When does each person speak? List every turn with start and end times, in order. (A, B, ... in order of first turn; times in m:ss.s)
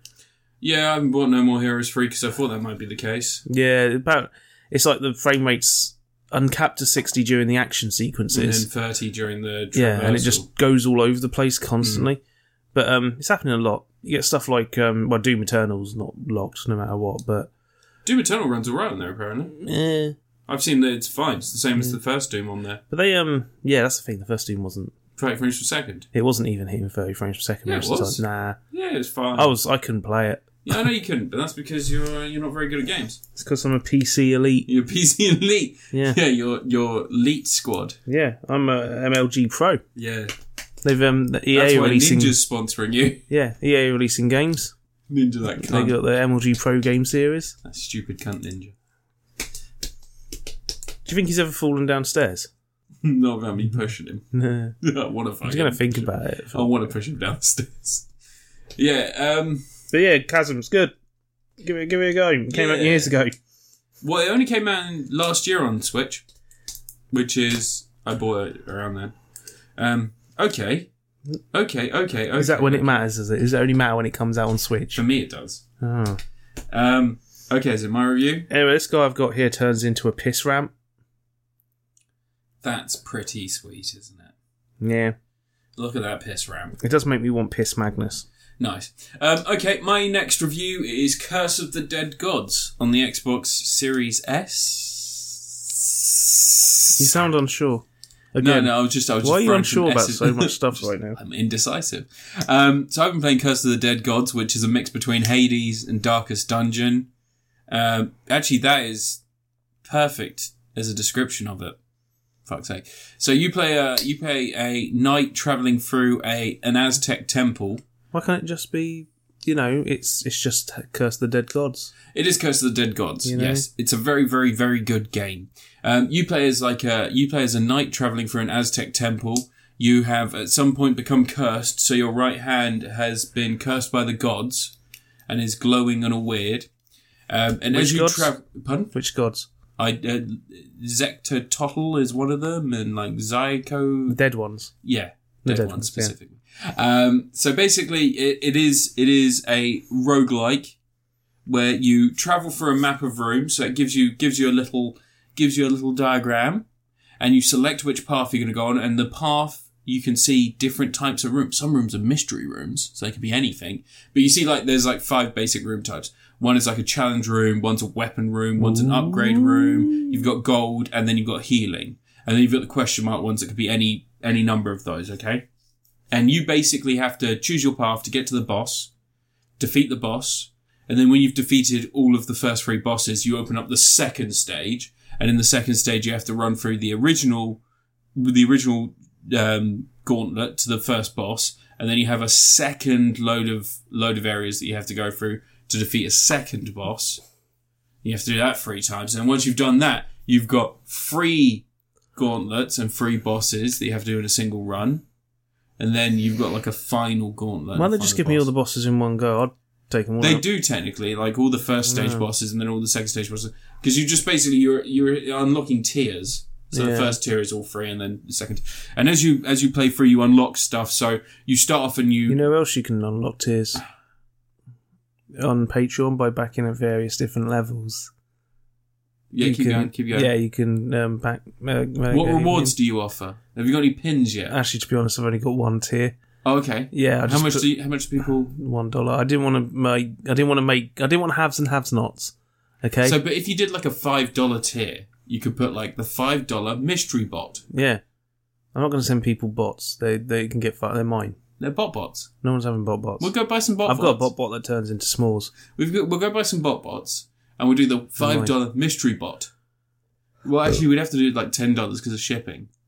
0:00.6-0:03.4 A
0:03.5-0:08.6 B
0:08.3-0:10.4 A
0:09.7-0:12.2 B
0:11.8-0:12.1 A
0:12.7-0:17.5 B
0:18.0-0:19.5 A
0:19.5-0:20.1 B
0:20.5-0:22.8 A
0:22.9-0:24.9 B
0:25.2-0:26.1 A
0:26.1-0:28.6 B
0:27.6-0:29.5 A
0:29.4-0:30.8 B
0:30.6-0:33.2 A
0:33.4-0:34.7 B
0:34.7-0:38.0 A
0:35.9-0:36.2 B
0:38.1-0:39.8 B
0:40.0-0:40.3 A
0:40.8-0:42.4 B
0:41.5-0:43.2 A
0:43.3-0:44.7 B
0:45.1-0:46.0 A
0:45.6-0:47.5 B
0:47.6-0:48.7 A
0:51.0-0:52.5 B
0:53.0-0:54.2 A
0:54.3-0:54.7 B
0:54.8-0:58.1 A
0:55.4-0:56.7 B
0:58.8-0:59.6 A
0:59.9-1:00.9 B
1:01.6-1:03.4 B
1:02.5-1:03.1 A
1:04.0-1:06.2 A
1:07.1-1:09.1 A
1:09.8-1:10.9 A
1:11.5-1:13.0 A
1:12.4-1:15.0 B
1:14.9-1:15.6 A
1:15.8-1:16.2 B
1:16.7-1:18.5 A
1:18.5-1:20.7 B
1:22.6-1:24.3 A
1:24.8-1:25.2 B
1:25.8-1:26.8 A
1:26.8-1:28.2 B
1:28.6-1:37.2 A
1:37.0-1:37.8 B
1:38.3-1:41.2 B
1:38.4-1:47.1 A
1:47.7-1:49.2 A
1:49.8-1:51.8 A
1:52.4-1:57.8 A
1:58.1-2:01.9 B
2:02.1-2:14.7 A
2:03.2-2:03.6 B
2:15.3-2:16.7 A
2:17.3-2:18.9 A
2:17.7-2:18.3 B
2:18.9-2:19.5 B
2:19.8-2:24.2 A
2:24.1-2:24.7 B
2:24.8-2:30.8 A
2:25.4-2:26.1 B
2:31.4-2:36.6 A
2:37.2-2:55.4 A
2:48.6-2:50.2 B
2:56.1-2:58.9 A
2:59.6-3:07.6 A
3:08.1-3:17.2 A
3:18.0-3:21.6 A
3:22.2-3:25.0 A
3:25.8-3:28.5 A
3:27.7-3:30.4 B
3:30.2-3:42.4 A
3:31.9-3:32.2 B
3:36.7-3:37.1 B
3:42.3-3:43.8 B
3:45.4-3:48.1 B
3:49.3-3:50.3 A
3:49.4-3:52.7 B
3:52.1-3:54.6 A
3:54.5-3:56.2 B
3:56.4-3:58.5 A
3:56.9-3:57.7 B
3:58.5-4:03.2 B
4:03.0-4:07.6 A
4:07.7-4:08.0 B
4:08.7-4:11.4 B
4:11.6-4:12.3 A
4:12.4-4:13.3 B
4:13.2-4:14.3 A
4:13.8-4:15.5 B
4:15.7-4:19.5 A
4:18.2-4:18.5 B
4:20.4-4:22.7 A